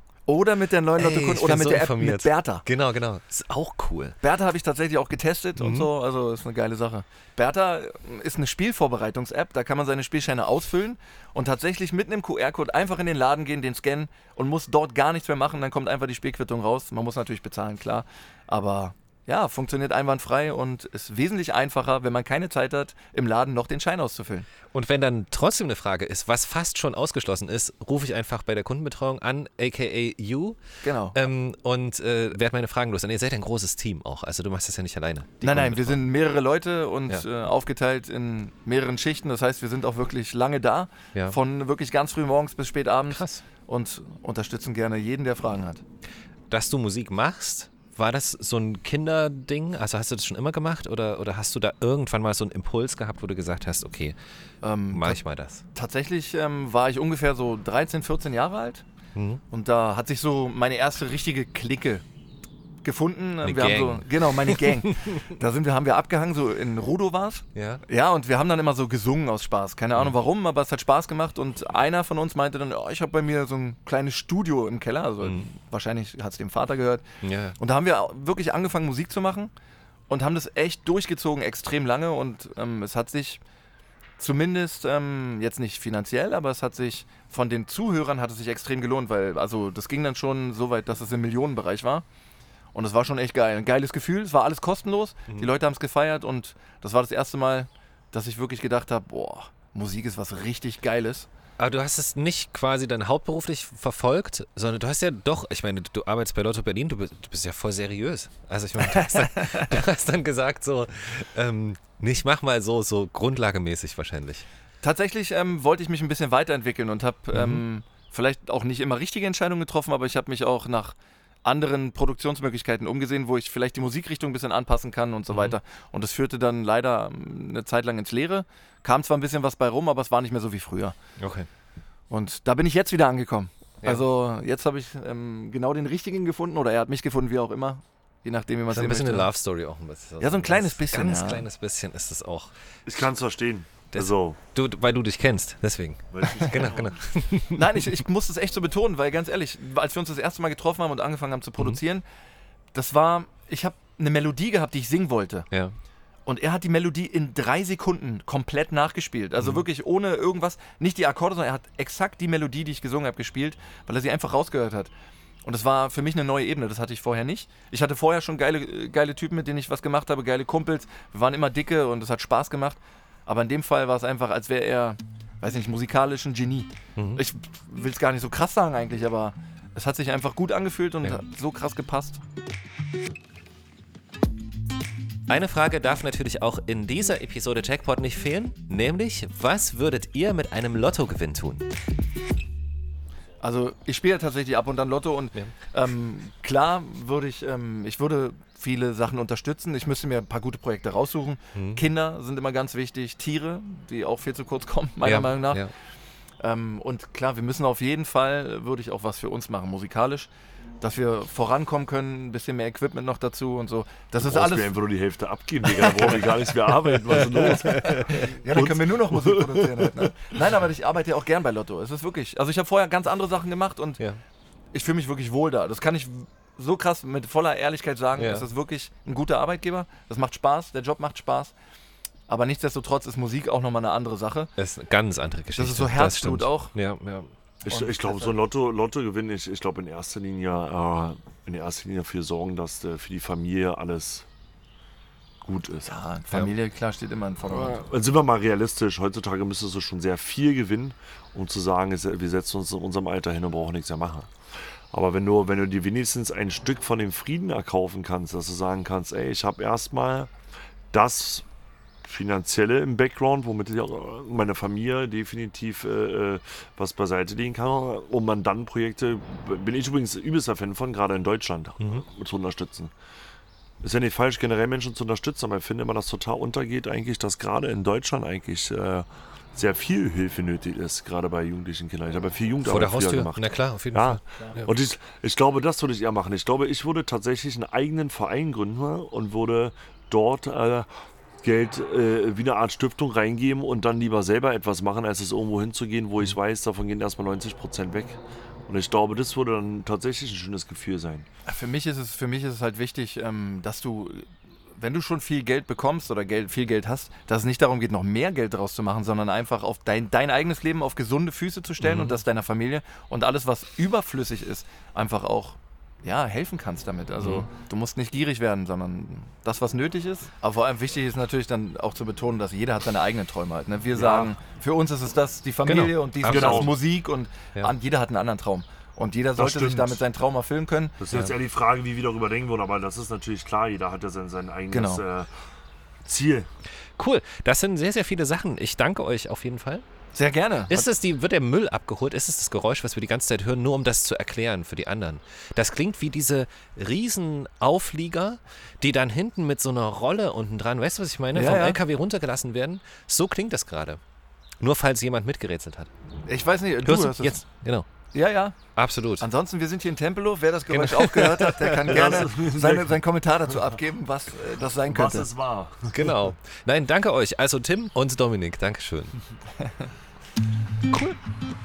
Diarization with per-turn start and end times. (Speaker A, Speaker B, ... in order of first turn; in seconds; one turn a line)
Speaker A: 0.3-2.6
Speaker B: 1.0-4.2
Speaker A: 4.2-24.5
Speaker B: 5.6-5.9
Speaker B: 24.7-30.6
Speaker A: 30.8-31.3
Speaker B: 31.1-36.0
Speaker A: 35.4-45.8
Speaker B: 43.1-43.4
Speaker B: 46.5-54.2
Speaker A: 54.6-55.2
Speaker B: 54.9-55.6
Speaker A: 55.7-58.8
Speaker B: 59.1-59.4
Speaker A: 59.5-62.0
Speaker A: 62.8-77.0
Speaker B: 63.4-64.7
Speaker B: 67.5-67.8
Speaker B: 77.2-77.6
Speaker A: 77.6-79.5
Speaker A: 80.1-83.4
Speaker A: 84.2-92.0
Speaker A: 92.7-101.3
Speaker B: 101.6-114.5
Speaker A: 108.9-109.2
Speaker A: 114.8-130.9
Speaker B: 117.3-117.6
Speaker B: 125.3-125.6
Speaker B: 131.2-131.5
Speaker A: 132.1-139.3
Speaker B: 138.7-142.5
Speaker A: 140.2-141.5
Speaker C: 142.9-144.4
Speaker B: 143.9-147.7
Speaker C: 146.1-146.9
Speaker A: 147.5-152.1
Speaker A: 152.7-155.5
Speaker A: 156.3-164.9
Speaker A: 165.4-182.2
Speaker B: 177.0-177.2
Speaker B: 185.3-191.7
Speaker A: 193.4-205.7
Speaker B: 201.5-201.8
Speaker B: 205.0-205.7
Speaker A: 206.4-210.3
Speaker A: 210.8-214.8
Speaker C: 214.2-220.1
Speaker A: 215.7-216.2
Speaker B: 217.1-218.3
Speaker A: 217.2-224.0
Speaker A: 224.7-231.5
Speaker B: 228.2-228.5
Speaker A: 232.3-234.5
Speaker B: 234.6-237.3
Speaker A: 235.6-236.7
Speaker A: 237.7-238.4
Speaker C: 237.7-244.3
Speaker C: 245.4-246.0
Speaker A: 245.8-247.8
Speaker C: 247.5-254.3
Speaker C: 254.9-260.3
Speaker C: 260.9-261.5
Speaker C: 262.0-272.9
Speaker C: 273.8-290.9
Speaker B: 282.6-284.7
Speaker C: 291.4-301.3
Speaker A: 301.5-331.0
Speaker B: 311.8-312.2
Speaker B: 317.2-317.5
Speaker C: 323.9-324.4
Speaker B: 325.6-326.8
Speaker C: 326.2-326.7
Speaker C: 329.4-330.0
Speaker C: 331.0-335.3
Speaker A: 334.7-335.0
Speaker C: 336.1-336.5
Speaker B: 337.0-339.8
Speaker A: 340.1-340.9
Speaker B: 340.7-354.0
Speaker A: 351.3-351.8
Speaker B: 354.6-355.9
Speaker A: 356.3-357.4
Speaker B: 356.9-357.9
Speaker A: 358.1-358.6
Speaker B: 358.8-359.3
Speaker A: 359.2-365.3
Speaker B: 360.7-362.2
Speaker C: 361.9-363.0
Speaker C: 364.9-366.2
Speaker B: 365.9-369.2